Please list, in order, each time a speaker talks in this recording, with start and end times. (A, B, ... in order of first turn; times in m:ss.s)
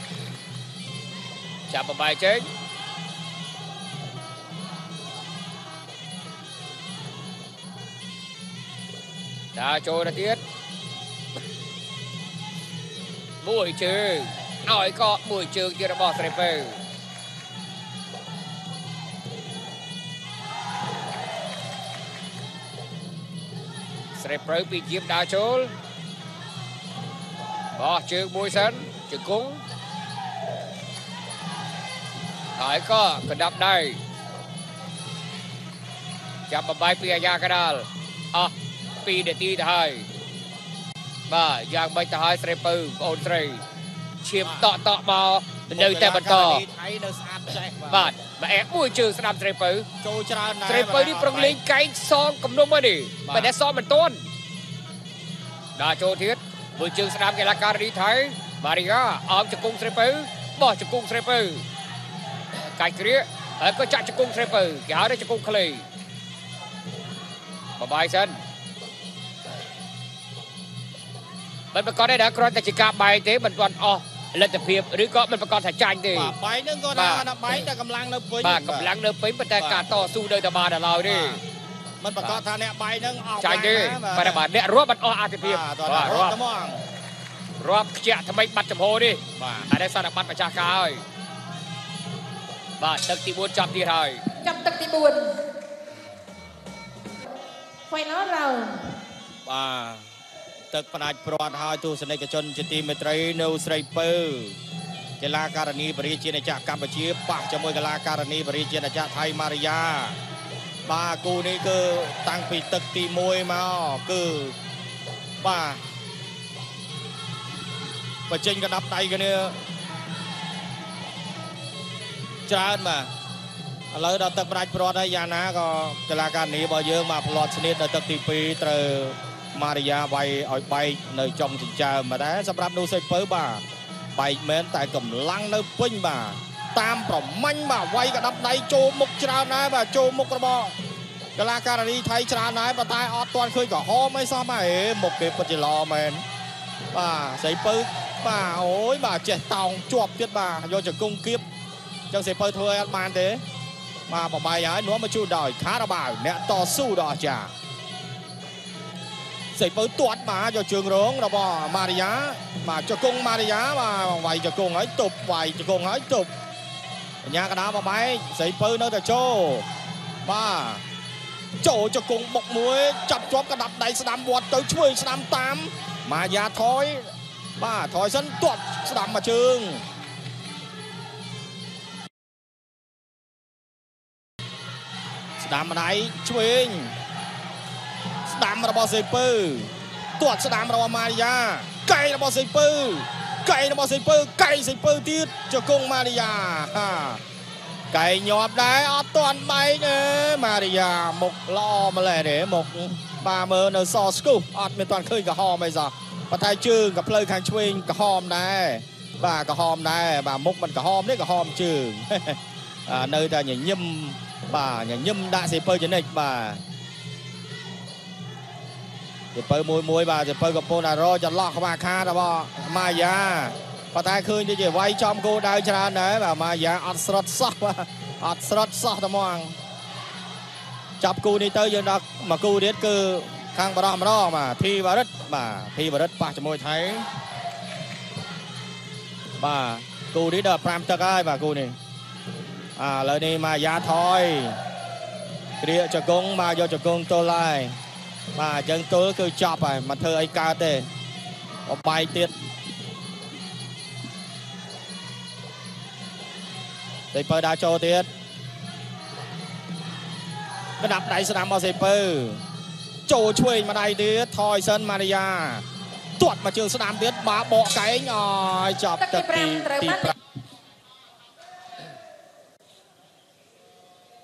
0:01.7-0:02.5 A
0:09.5-0:10.4 A
0:13.4-0:16.8 A
0:24.1-0:25.7 A
0:27.8-0:29.6 A
0:32.6-0:34.0 A
0:36.5-0:38.5 A
0:39.0-0:40.1 A
0:41.3-0:43.6 A
0:44.2-0:46.6 A
0:44.4-0:44.7 B
0:45.7-0:48.1 B
0:47.9-0:49.9 A
0:50.0-0:51.6 B
0:50.6-0:54.2 A
0:53.2-0:53.5 B
0:55.8-1:01.6 A
1:02.5-1:05.8 A
1:07.8-1:08.4 A
1:11.7-1:16.3 A
1:16.1-1:18.9 B
1:16.9-1:17.2 A
1:18.4-1:21.4 A
1:19.6-1:19.9 B
1:21.0-1:21.4 B
1:22.0-1:24.4 B
1:23.4-1:26.4 A
1:25.4-1:26.8 B
1:27.6-1:31.0 A
1:29.4-1:29.7 B
1:32.8-1:34.2 A
1:34.4-1:35.3 C
1:37.9-1:38.8 C
1:39.4-1:40.0 B
1:40.7-1:44.6 B
1:45.2-1:50.2 B
1:50.8-1:54.6 B
1:55.4-1:55.8 B
1:58.3-1:59.6 B
2:02.5-2:03.1 B
2:03.9-2:13.6 B
2:14.2-2:20.8 B
2:21.4-2:26.2 B
2:26.9-2:31.4 B
2:32.1-2:33.4 B
2:34.1-2:37.5 B
2:39.5-2:46.3 B
2:47.2-2:49.7 B
2:50.2-2:50.8 B
2:51.6-2:59.8 B
3:05.4-3:06.9 B
3:08.2-3:17.2 B
3:17.9-3:36.6 B
3:39.3-3:49.6 B
3:51.0-3:57.1 B
3:59.4-4:01.8 B
4:02.8-4:04.6 B
4:05.6-4:07.8 B
4:08.4-4:10.9 B
4:11.6-4:12.3 B
4:17.1-4:18.1 B
4:20.8-4:22.4 B
4:23.1-4:25.6 B
4:26.2-4:30.1 B
4:29.0-4:30.0 C